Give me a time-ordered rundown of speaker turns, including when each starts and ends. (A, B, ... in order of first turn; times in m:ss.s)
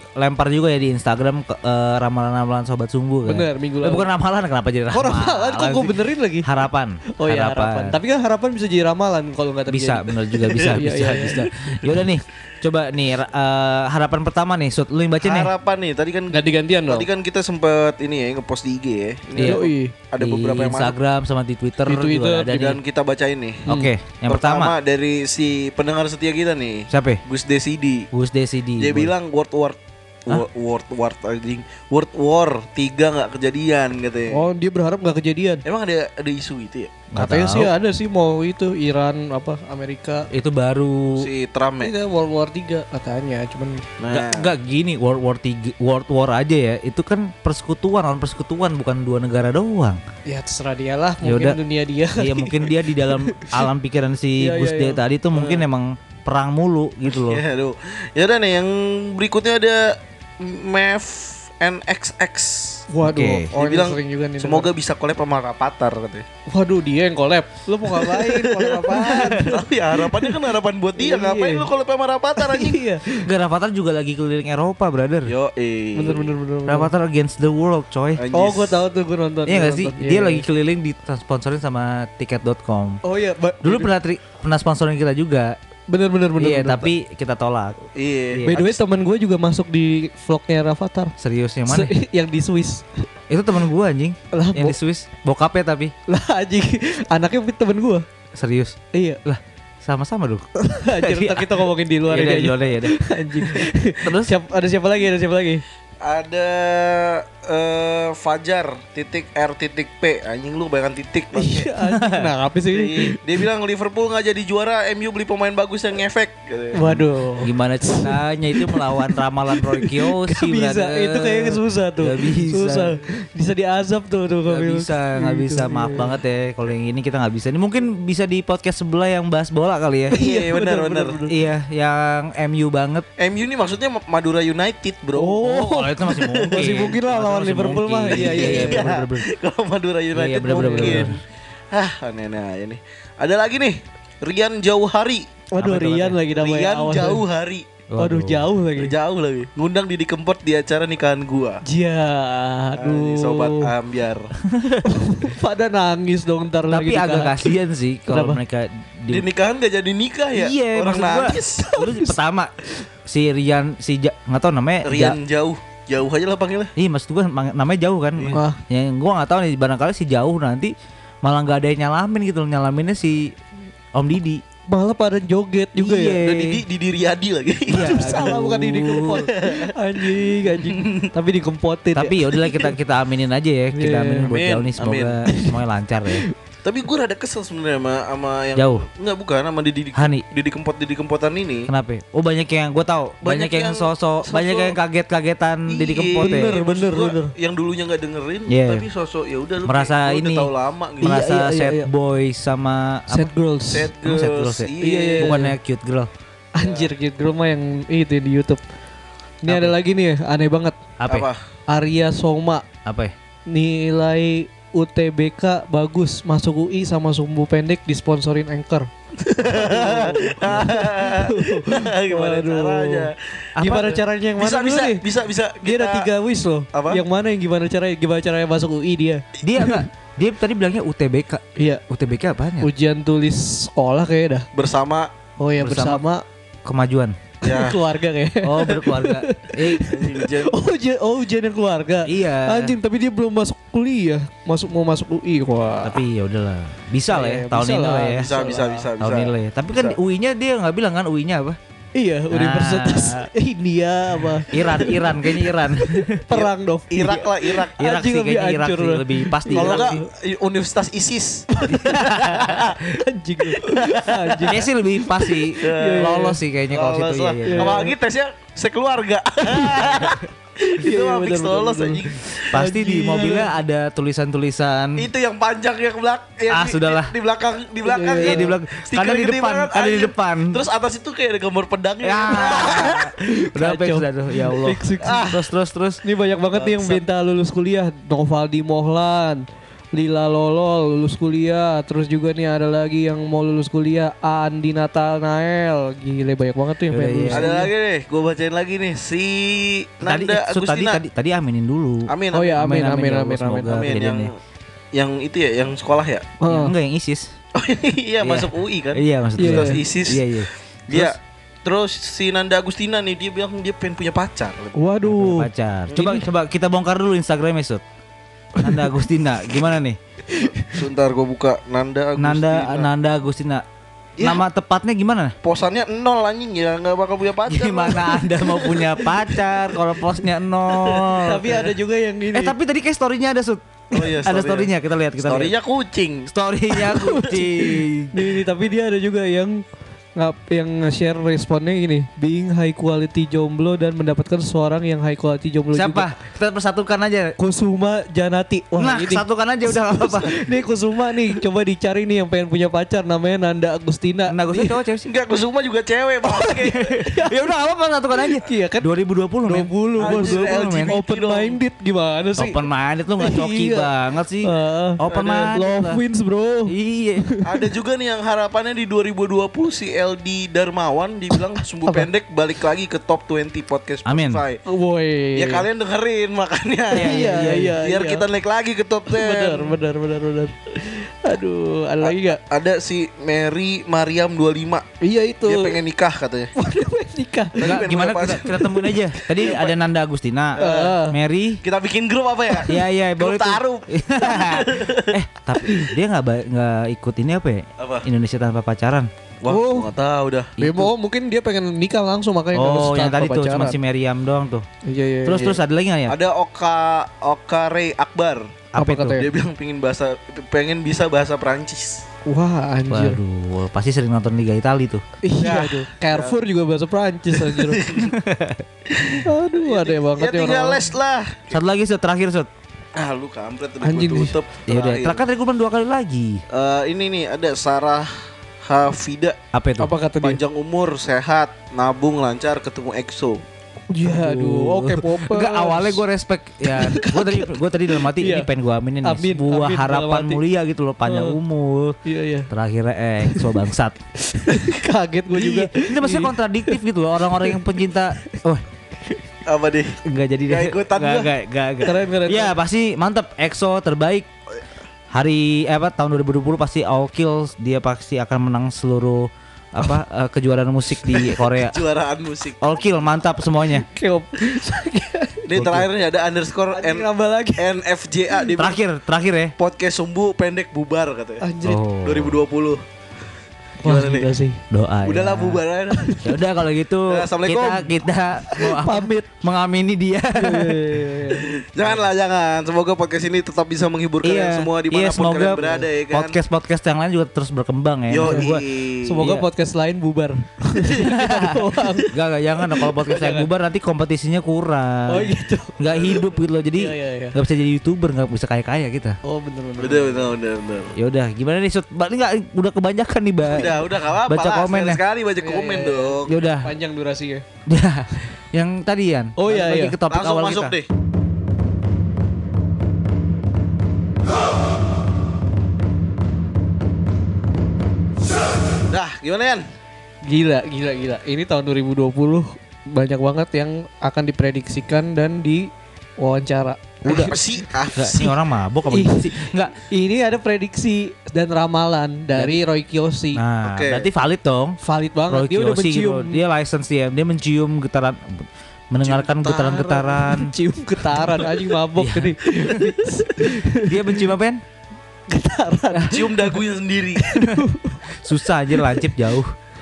0:00.2-0:08.0 A
0:03.3-0:04.1 B
0:04.9-0:06.5 B
0:07.2-0:11.5 B
0:09.7-0:15.5 A
0:10.5-0:10.8 C
0:15.2-0:21.0 C
0:16.3-0:17.1 B
0:19.4-0:19.6 A
0:19.4-0:19.9 B
0:20.2-0:22.8 A
0:21.9-0:22.5 B
0:22.5-0:23.8 C
0:23.7-0:24.7 A
0:24.3-0:28.1 C
0:26.9-0:27.2 A
0:28.1-0:29.1 A
0:28.8-0:34.4 C
0:34.3-0:35.6 B
0:35.6-0:37.1 C
0:37.1-0:37.7 A
0:37.2-0:40.3 B
0:40.3-0:41.3 A
0:41.1-0:41.9 C
0:41.8-0:43.8 B
0:44.0-0:44.5 C
0:44.1-0:50.0 A
0:50.3-0:53.6 B
0:51.2-0:51.6 A
0:52.2-0:57.4 A
0:54.4-0:55.0 B
0:57.1-1:02.8 C
1:02.9-1:04.7 B
1:03.0-1:03.5 A
1:03.6-1:06.3 C
1:06.5-1:10.4 B
1:07.9-1:12.8 C
1:11.0-1:11.7 B
1:12.4-1:13.3 B
1:13.2-1:15.3 A
1:15.3-1:16.3 C
1:16.0-1:16.9 B
1:16.7-1:18.2 A
1:18.2-1:18.8 C
1:18.3-1:20.4 B
1:19.5-1:23.0 A
1:23.0-1:23.9 B
1:23.6-1:25.6 A
1:25.9-1:26.9 B
1:26.4-1:27.8 A
1:28.0-1:28.4 C
1:28.3-1:28.8 A
1:28.5-1:31.1 B
1:31.2-1:31.9 A
1:31.7-1:33.1 B
1:33.3-1:35.9 A
1:34.3-1:34.8 B
1:36.1-1:38.0 B
1:38.4-1:44.3 A
1:38.9-1:39.2 B
1:40.6-1:45.6 B
1:46.0-1:51.7 C
1:51.4-1:53.2 B
1:51.8-1:52.3 A
1:52.7-1:57.1 C
1:56.7-2:06.1 B
1:57.4-2:02.9 A
2:04.5-2:10.2 A
2:10.1-2:11.2 C
2:10.1-2:11.3 B
2:11.3-2:13.1 A
2:13.2-2:16.9 C
2:15.2-2:18.9 B
2:15.6-2:19.3 A
2:18.1-2:21.1 C
2:20.1-2:21.2 A
2:20.5-2:21.2 B
2:21.7-2:25.2 C
2:25.5-2:27.2 B
2:25.6-2:26.2 A
2:26.4-2:27.6 C
2:27.9-2:28.5 A
2:28.0-2:28.9 B
2:28.8-2:31.6 C
2:31.6-2:33.7 B
2:32.8-2:34.3 C
2:34.5-2:34.8 A
2:34.9-2:37.5 B
2:36.7-2:39.3 A
2:38.1-2:38.4 B
2:39.1-2:41.7 C
2:40.3-2:42.5 A
2:41.6-2:42.2 B
2:43.1-2:45.2 A
2:44.8-2:46.7 C
2:46.8-2:53.4 A
2:48.3-2:48.6 B
2:53.9-2:54.4 A
2:54.7-2:56.2 B
2:55.8-2:56.6 A
2:56.2-2:58.4 C
2:57.7-2:59.3 A
2:57.7-3:02.7 B
2:59.1-3:01.1 C
3:01.9-3:06.2 A
3:03.7-3:04.4 B
3:04.2-3:05.2 C
3:05.3-3:05.6 B
3:06.6-3:11.7 C
3:08.6-3:08.9 A
3:10.0-3:10.2 A
3:11.7-3:16.5 A
3:13.2-3:14.8 C
3:15.7-3:21.2 C
3:16.2-3:17.3 B
3:18.5-3:18.9 A
3:19.6-3:20.5 A
3:21.0-3:21.9 B
3:21.0-3:23.3 A
3:23.1-3:23.9 B
3:23.7-3:25.4 C
3:24.0-3:26.1 A
3:24.8-3:25.5 B
3:26.6-3:28.6 B
3:26.6-3:26.9 C
3:29.4-3:30.8 B
3:29.5-3:29.8 A
3:31.0-3:31.3 A
3:31.1-3:31.4 C
3:31.7-3:32.6 B
3:32.8-3:33.1 A
3:33.5-3:45.0 B
3:39.3-3:46.1 C
3:43.6-3:43.9 A
3:45.6-3:49.7 B
3:46.7-3:47.0 C
3:49.4-3:52.7 A
3:51.6-3:51.8 B
3:52.6-3:54.5 B
3:54.5-3:55.1 C
3:55.4-3:56.2 B
3:55.6-3:56.0 A
3:56.6-3:57.2 A
3:57.4-4:06.0 B
3:57.5-3:57.8 C
3:58.4-3:59.8 A
3:59.9-4:00.6 C
4:02.1-4:02.8 A
4:05.8-4:08.3 A
4:07.1-4:08.9 B
4:08.2-4:10.0 C
4:09.0-4:11.6 A
4:12.0-4:20.1 B
4:12.3-4:13.3 A
4:14.5-4:16.2 A
4:16.3-4:17.8 C
4:17.8-4:20.0 A
4:19.5-4:21.5 C
4:21.5-4:26.4 B
4:21.7-4:22.8 A
4:22.2-4:22.8 C
4:23.7-4:24.5 C
4:24.5-4:27.8 A
4:25.6-4:26.2 C
4:26.7-4:32.4 C
4:27.4-4:27.9 B
4:29.4-4:30.2 B
4:30.8-4:33.5 B
4:32.5-4:35.1 A
4:35.0-4:43.1 C
4:36.5-4:37.1 A
4:37.8-4:38.5 B
4:38.2-4:40.6 A
4:42.0-4:46.0 A
4:42.3-4:45.3 B
4:45.0-4:45.4 C
4:46.0-4:49.4 B
4:46.5-4:47.0 C
4:49.9-4:57.7 B
4:56.9-4:57.5 A
4:57.3-5:01.0 C
5:00.0-5:04.3 A
5:02.1-5:02.7 C
5:02.3-5:03.8 B
5:03.6-5:04.3 C
5:05.0-5:06.3 C
5:06.4-5:06.7 B
5:06.5-5:07.3 A
5:07.6-5:14.8 C
5:08.2-5:11.2 A
5:09.4-5:09.8 B
5:14.8-5:16.2 B
5:15.0-5:17.8 A
5:15.9-5:16.2 C
5:18.6-5:18.9 B
5:18.6-5:20.0 A
5:20.3-5:20.8 B
5:20.4-5:22.9 C
5:22.2-5:23.6 A
5:24.2-5:24.4 C
5:24.2-5:25.4 A
5:25.4-5:28.9 C
5:27.5-5:31.5 A
5:30.8-5:31.6 C
5:31.2-5:32.6 B
5:32.3-5:33.6 A
5:33.9-5:36.3 C
5:34.2-5:35.5 A
5:36.3-5:38.2 A
5:36.7-5:39.6 B
5:40.2-5:46.1 B
5:45.7-5:47.4 A
5:47.4-5:54.8 B
5:48.8-5:50.4 A
5:54.3-5:55.1 A
5:55.1-5:56.9 C
5:56.2-5:57.4 B
5:56.8-6:00.9 A
5:58.4-5:58.9 B
5:59.5-6:02.6 B
6:00.0-6:01.6 C
6:02.4-6:06.0 A
6:03.2-6:03.9 B
6:04.4-6:07.7 B
6:05.1-6:05.5 C
6:06.7-6:07.2 A
6:07.4-6:14.6 C
6:11.3-6:12.1 B
6:14.1-6:14.4 A
6:14.7-6:15.7 B
6:15.4-6:19.8 C
6:16.9-6:18.2 B
6:16.9-6:17.8 A
6:19.1-6:22.4 B
6:22.0-6:24.9 C
6:25.0-6:25.8 B
6:25.5-6:26.5 C
6:26.6-6:27.8 B
6:27.6-6:28.7 C
6:27.6-6:31.6 A
6:29.3-6:29.7 C
6:30.6-6:30.9 C
6:30.6-6:31.2 B
6:31.6-6:35.2 C
6:32.7-6:39.1 A
6:37.8-6:38.1 C
6:39.4-6:40.6 C
6:39.5-6:39.9 B
6:40.6-6:40.9 A
6:40.6-6:43.8 B
6:42.5-6:44.6 A
6:44.8-6:45.5 B
6:45.2-6:46.2 A
6:46.1-6:48.6 C
6:48.7-6:49.2 A
6:48.8-6:49.3 B
6:49.2-6:52.0 C
6:52.3-6:53.2 B
6:52.9-6:55.0 A
6:55.2-6:57.9 B
6:55.4-6:56.4 C
6:57.4-6:58.1 C
6:58.1-6:58.6 A
6:58.9-7:01.6 C
6:59.1-7:00.8 B
7:01.5-7:02.5 A
7:03.0-7:05.2 C
7:03.8-7:04.4 B
7:04.7-7:06.4 A
7:06.5-7:08.1 C
7:08.6-7:09.4 C
7:09.5-7:09.9 A
7:09.8-7:10.4 B
7:10.2-7:13.4 C
7:13.9-7:16.0 B
7:14.0-7:22.0 A
7:16.7-7:18.5 B
7:19.0-7:20.4 B
7:21.0-7:21.4 B
7:22.0-7:22.5 B
7:22.5-7:24.0 A
7:23.3-7:23.6 B
7:24.2-7:26.8 B
7:25.3-7:28.6 A
7:27.4-7:27.6 B
7:29.5-7:31.3 C
7:30.0-7:34.3 A
7:31.8-7:32.5 B
7:35.1-7:41.8 A
7:41.2-7:42.7 C
7:42.6-7:43.9 A
7:43.7-7:45.6 B
7:45.5-7:48.8 C
7:45.6-7:45.9 A
7:46.7-7:47.6 B
7:48.6-7:49.5 A
7:49.6-7:51.4 C
7:51.4-7:51.8 B
7:51.6-7:52.4 A
7:52.0-7:52.8 C
7:53.8-7:54.6 B
7:53.8-7:54.3 C
7:53.8-7:54.2 A
7:54.7-7:55.6 A
7:55.0-7:56.2 C
7:55.9-7:56.4 B
7:56.2-8:00.9 A
7:57.1-7:58.0 C
7:58.5-7:59.3 B
8:00.4-8:01.5 B
8:01.4-8:06.4 C
8:04.2-8:08.6 A
8:08.1-8:09.2 C
8:08.2-8:08.5 B
8:09.0-8:12.1 B
8:11.0-8:19.2 A
8:13.1-8:13.4 B
8:15.1-8:15.8 B
8:16.8-8:17.4 B
8:19.2-8:20.3 B
8:19.8-8:20.9 C
8:21.0-8:25.0 A
8:23.4-8:26.4 C
8:25.4-8:27.4 B
8:26.3-8:26.7 A
8:27.7-8:30.8 A
8:29.4-8:30.0 B
8:30.1-8:30.9 C
8:38.9-8:39.7 C
8:40.3-8:47.4 B
8:47.1-8:48.4 C
8:48.0-8:49.8 A
8:48.9-8:53.4 B
8:53.4-8:54.8 A
8:53.6-8:54.1 C
8:54.8-8:56.4 B
8:55.3-9:00.5 A
8:59.0-9:00.0 C
8:59.6-9:04.3 B
9:02.0-9:02.4 A
9:03.7-9:04.6 A
9:05.3-9:06.6 B
9:06.1-9:07.4 C
9:07.2-9:08.0 B
9:07.5-9:09.5 A
9:08.7-9:09.1 B